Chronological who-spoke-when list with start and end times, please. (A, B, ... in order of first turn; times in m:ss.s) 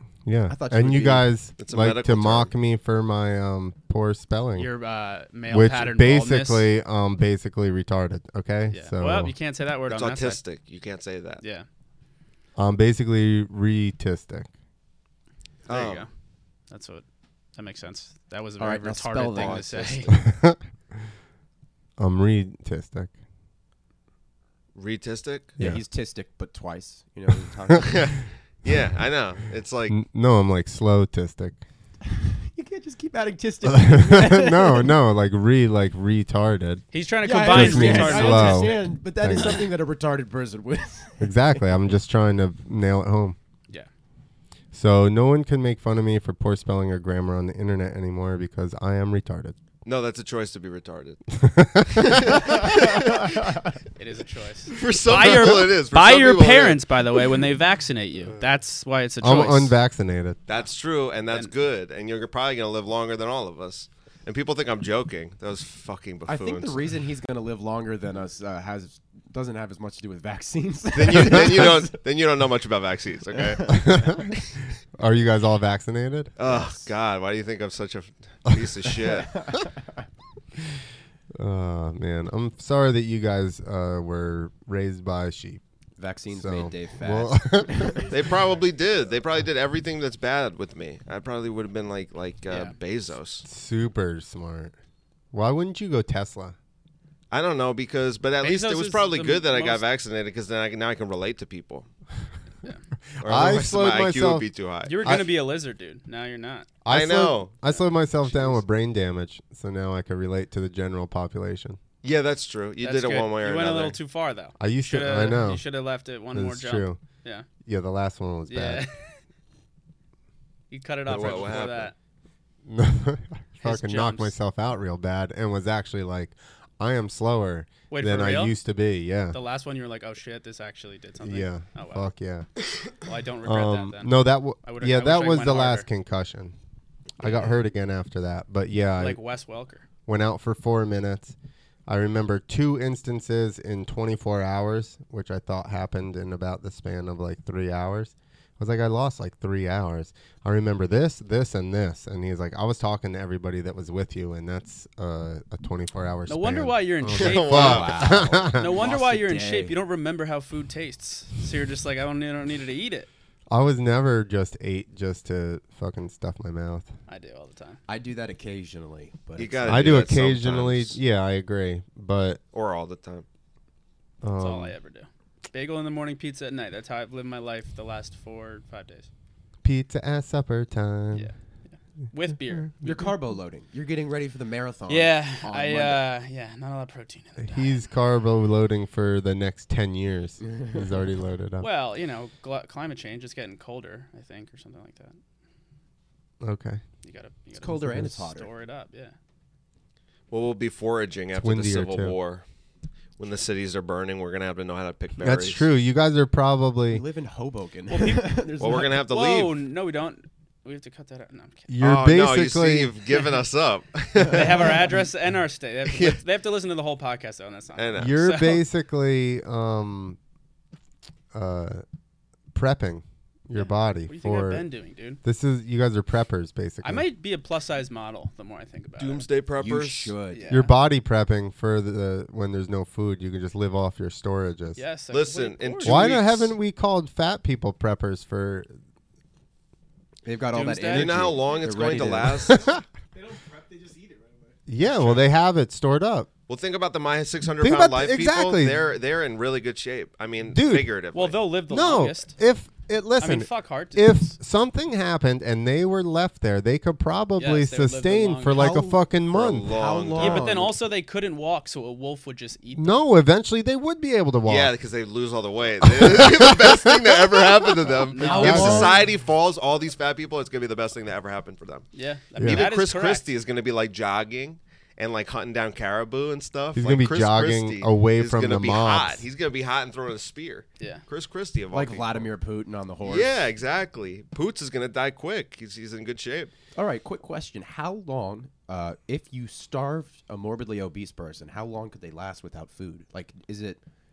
0:00.2-0:04.7 A
0:00.5-0:01.3 B
0:01.6-0:02.5 C
0:04.6-0:06.7 D
0:05.5-0:09.3 A
0:08.7-0:10.4 D
0:09.9-0:11.4 C
0:12.6-0:14.5 A
0:15.7-0:16.1 D
0:15.7-0:16.0 C
0:16.7-0:17.0 D
0:17.6-0:20.2 D
0:18.6-0:20.2 B
0:19.4-0:20.0 C
0:20.1-0:20.6 A
0:22.0-0:23.1 A
0:24.7-0:25.6 C
0:25.6-0:28.2 B
0:27.8-0:30.0 C
0:29.9-0:31.6 A
0:32.0-0:35.0 B
0:33.6-0:36.8 A
0:36.9-0:39.6 D
0:37.2-0:41.3 B
0:37.4-0:39.6 A
0:41.2-0:43.4 A
0:44.7-0:49.6 A
0:49.8-0:51.2 C
0:51.4-0:52.6 A
0:51.8-0:53.7 C
0:53.9-0:59.8 D
0:54.7-0:56.8 C
0:59.2-1:00.4 A
1:00.5-1:06.8 C
1:06.3-1:12.0 B
1:10.9-1:14.1 C
1:13.4-1:13.8 B
1:13.6-1:14.3 A
1:15.0-1:16.3 A
1:16.4-1:19.4 C
1:16.4-1:16.8 B
1:19.1-1:19.7 B
1:21.4-1:25.6 A
1:26.0-1:28.1 B
1:26.3-1:28.1 A
1:28.1-1:33.4 C
1:32.5-1:32.7 D
1:33.4-1:34.7 A
1:35.3-1:36.6 A
1:37.3-1:41.9 C
1:38.4-1:39.8 D
1:43.2-1:44.5 A
1:43.2-1:45.1 C
1:44.8-1:46.7 D
1:45.0-1:45.3 A
1:46.8-1:51.8 A
1:46.9-1:47.5 C
1:52.0-1:54.0 C
1:52.8-1:57.5 D
1:54.6-1:55.6 A
1:56.3-1:57.0 A
1:57.6-1:58.8 A
1:58.5-1:59.1 D
2:00.7-2:01.9 D
2:01.1-2:01.9 C
2:02.6-2:09.4 A
2:03.6-2:04.4 D
2:07.9-2:08.6 D
2:09.3-2:12.1 D
2:11.2-2:12.5 A
2:13.0-2:15.8 D
2:13.4-2:16.5 A
2:17.2-2:19.2 A
2:19.0-2:19.8 D
2:20.1-2:21.4 A
2:21.9-2:38.7 A
2:36.3-2:43.1 D
2:37.1-2:38.2 C
2:37.5-2:39.8 B
2:43.5-2:46.9 A
2:47.1-2:47.8 D
2:47.9-2:50.0 B
2:49.4-2:51.0 C
2:49.6-2:52.4 A
2:52.5-2:53.2 C
2:54.2-2:54.7 A
2:54.4-2:59.1 D
2:59.6-3:01.3 A
3:01.1-3:02.9 D
3:02.8-3:06.0 B
3:04.9-3:07.8 D
3:07.4-3:11.7 A
3:10.4-3:10.9 B
3:11.6-3:15.2 D
3:16.4-3:16.8 A
3:17.0-3:19.1 D
3:17.5-3:18.5 B
3:20.3-3:22.4 C
3:21.3-3:22.2 A
3:23.2-3:25.7 C
3:25.2-3:27.0 A
3:26.9-3:29.0 B
3:27.9-3:31.7 D
3:28.6-3:29.5 C
3:31.7-3:33.0 A
3:31.8-3:34.9 C
3:34.2-3:38.6 D
3:34.2-3:35.0 B
3:35.8-3:36.2 C
3:37.8-3:38.2 C
3:38.0-3:40.2 A
3:41.3-3:41.8 A
3:42.5-3:44.6 A
3:43.5-3:45.2 D
3:45.2-3:47.0 A
3:46.8-3:49.3 D
3:49.0-3:50.1 C
3:49.6-3:50.6 B
3:50.3-3:50.7 D
3:50.5-3:54.8 A
3:54.8-3:56.4 D
3:55.1-3:56.5 C
3:55.8-3:58.7 A
4:00.2-4:02.6 B
4:00.5-4:01.3 D
4:00.9-4:02.6 C
4:02.5-4:04.7 E
4:04.7-4:06.3 A
4:04.8-4:05.2 C
4:06.5-4:11.4 C
4:07.6-4:08.8 A
4:10.5-4:10.9 A
4:11.1-4:12.4 D
4:11.7-4:19.7 A
4:13.2-4:14.3 D
4:17.4-4:18.7 D
4:18.5-4:19.0 B
4:19.3-4:20.5 C
4:19.6-4:20.7 B
4:20.2-4:22.9 D
4:22.8-4:24.7 A
4:24.4-4:31.9 C
4:25.8-4:27.5 A
4:28.0-4:28.9 D
4:28.2-4:29.1 B
4:28.3-4:29.0 A
4:31.9-4:33.2 D
4:32.4-4:32.6 A
4:32.4-4:42.3 C
4:36.7-4:39.2 A
4:40.8-4:41.0 D
4:41.7-4:43.5 B
4:43.0-4:46.5 C
4:46.8-4:53.8 B